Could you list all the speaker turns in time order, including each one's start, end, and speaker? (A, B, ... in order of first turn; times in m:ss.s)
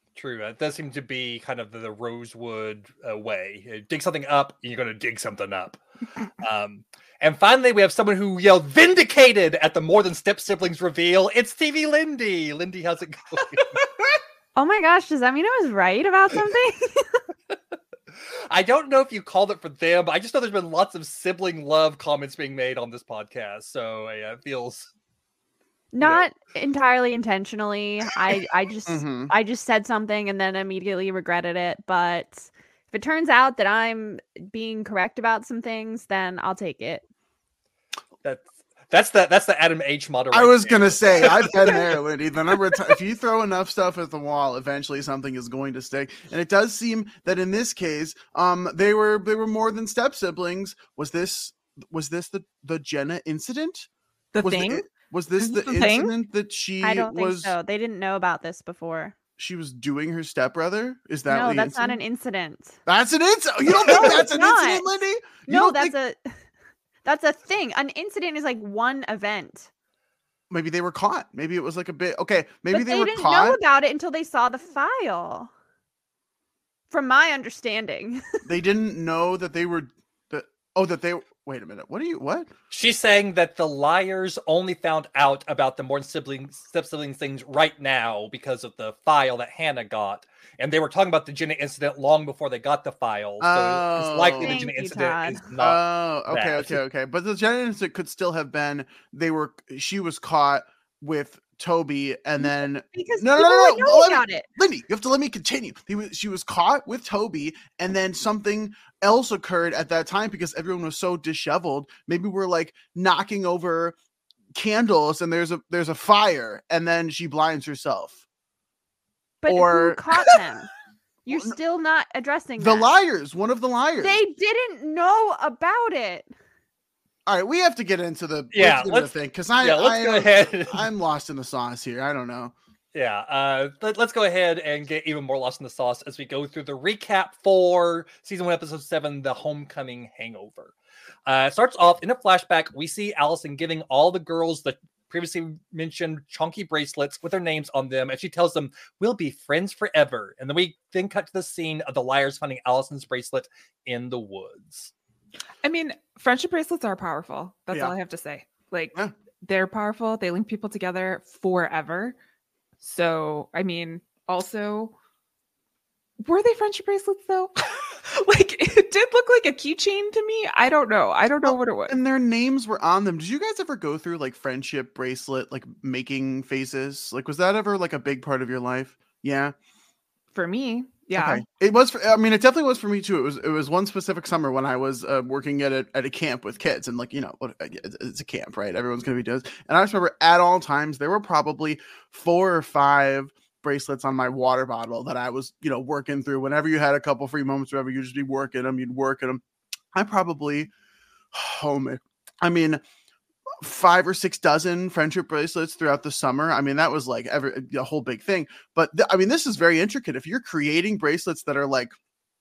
0:00.2-0:05.8 A
0:06.4-0:13.8 A
0:14.6-0:17.0 B
0:18.5-0:24.9 A
0:25.9-0:37.0 B
0:28.9-0:29.3 C
0:38.2-0:41.9 A
0:40.3-0:53.9 C
0:54.3-0:56.1 D
0:54.4-0:57.6 C
0:56.8-0:59.2 B
0:59.4-1:02.0 C
1:01.3-1:02.8 B
1:02.9-1:06.0 C
1:03.8-1:06.2 B
1:07.0-1:09.7 B
1:10.5-1:13.6 C
1:12.7-1:15.5 B
1:16.9-1:18.2 B
1:18.5-1:22.5 C
1:22.7-1:36.8 A
1:33.4-1:34.7 C
1:34.4-1:35.5 B
1:35.6-1:54.0 C
1:42.4-1:44.4 B
1:54.6-1:58.2 C
1:59.4-2:00.7 B
1:59.5-2:00.2 C
2:01.3-2:02.9 B
2:02.6-2:04.2 C
2:04.0-2:06.3 B
2:07.3-2:12.5 C
2:08.5-2:10.9 A
2:12.9-2:20.7 A
2:21.3-2:34.9 A
2:35.6-2:42.2 D
2:42.8-2:44.9 D
2:46.2-2:52.0 D
2:51.4-2:59.6 C
3:00.3-3:01.4 D
3:01.2-3:19.4 C
3:19.9-3:20.7 C
3:21.3-3:22.8 C
3:23.6-3:32.0 C